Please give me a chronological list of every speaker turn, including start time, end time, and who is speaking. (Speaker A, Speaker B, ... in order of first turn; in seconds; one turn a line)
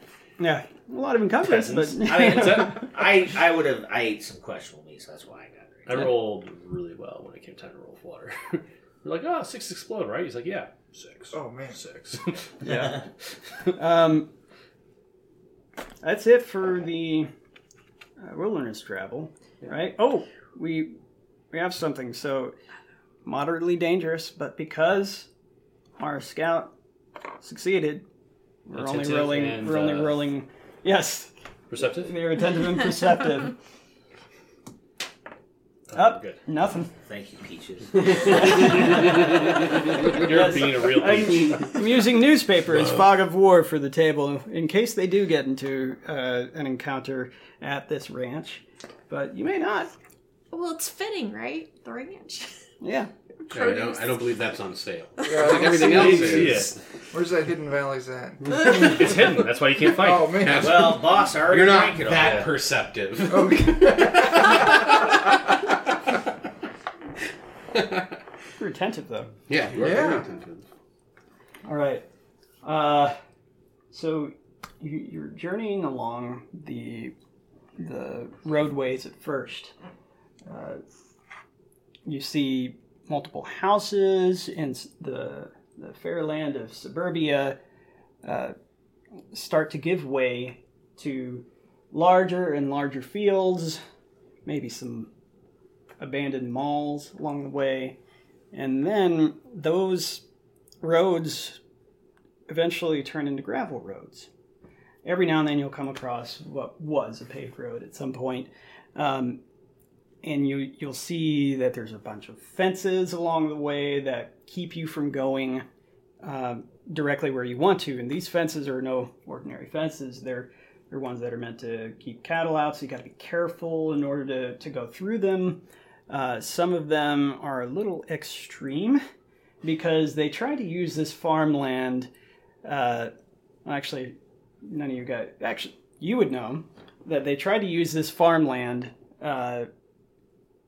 Speaker A: 0.4-2.9
Speaker B: 1.4-2.9
Speaker C: 2.0-6.1
Speaker B: 5.9-13.0
Speaker D: 11.3-11.8
Speaker A: 12.7-13.0
Speaker A: 13.8-14.3
Speaker A: 16.0-17.3
Speaker A: 18.2-21.0
Speaker A: 21.5-22.6
Speaker A: 23.2-25.3
Speaker A: 26.0-26.7
Speaker A: 27.4-28.1
Speaker A: 28.7-33.6
Speaker B: 28.7-30.3
Speaker B: 31.7-32.2
Speaker B: 35.9-36.4
Speaker A: 35.9-36.9
Speaker C: 37.0-39.1
Speaker A: 38.3-39.4
Speaker B: 38.4-41.8
Speaker A: 40.0-49.9
Speaker E: 50.5-52.5
Speaker A: 52.8-53.1
Speaker E: 53.5-54.3
Speaker F: 53.5-56.7
Speaker D: 55.3-59.2
Speaker B: 55.8-56.8
Speaker B: 58.5-60.5
Speaker D: 59.8-60.9
Speaker F: 60.4-64.9
Speaker C: 60.5-62.5
Speaker B: 62.2-62.5
Speaker D: 63.3-64.5
Speaker F: 67.7-68.1
Speaker A: 68.6-69.3
Speaker F: 69.5-70.7
Speaker D: 69.8-70.2
Speaker A: 71.7-72.0
Speaker A: 72.6-73.2
Speaker A: 73.9-77.1
Speaker A: 77.8-79.7
Speaker A: 80.5-80.8
Speaker A: 82.1-87.6
Speaker A: 88.2-88.6
Speaker A: 89.3-93.8
Speaker A: 94.5-95.1
Speaker A: 96.0-98.0
Speaker A: 98.5-100.2
Speaker A: 100.8-101.6
Speaker A: 102.5-104.3
Speaker A: 105.0-109.4
Speaker A: 110.2-115.7
Speaker A: 116.2-129.0
Speaker A: 129.6-132.1
Speaker A: 132.6-133.1
Speaker A: 133.7-139.7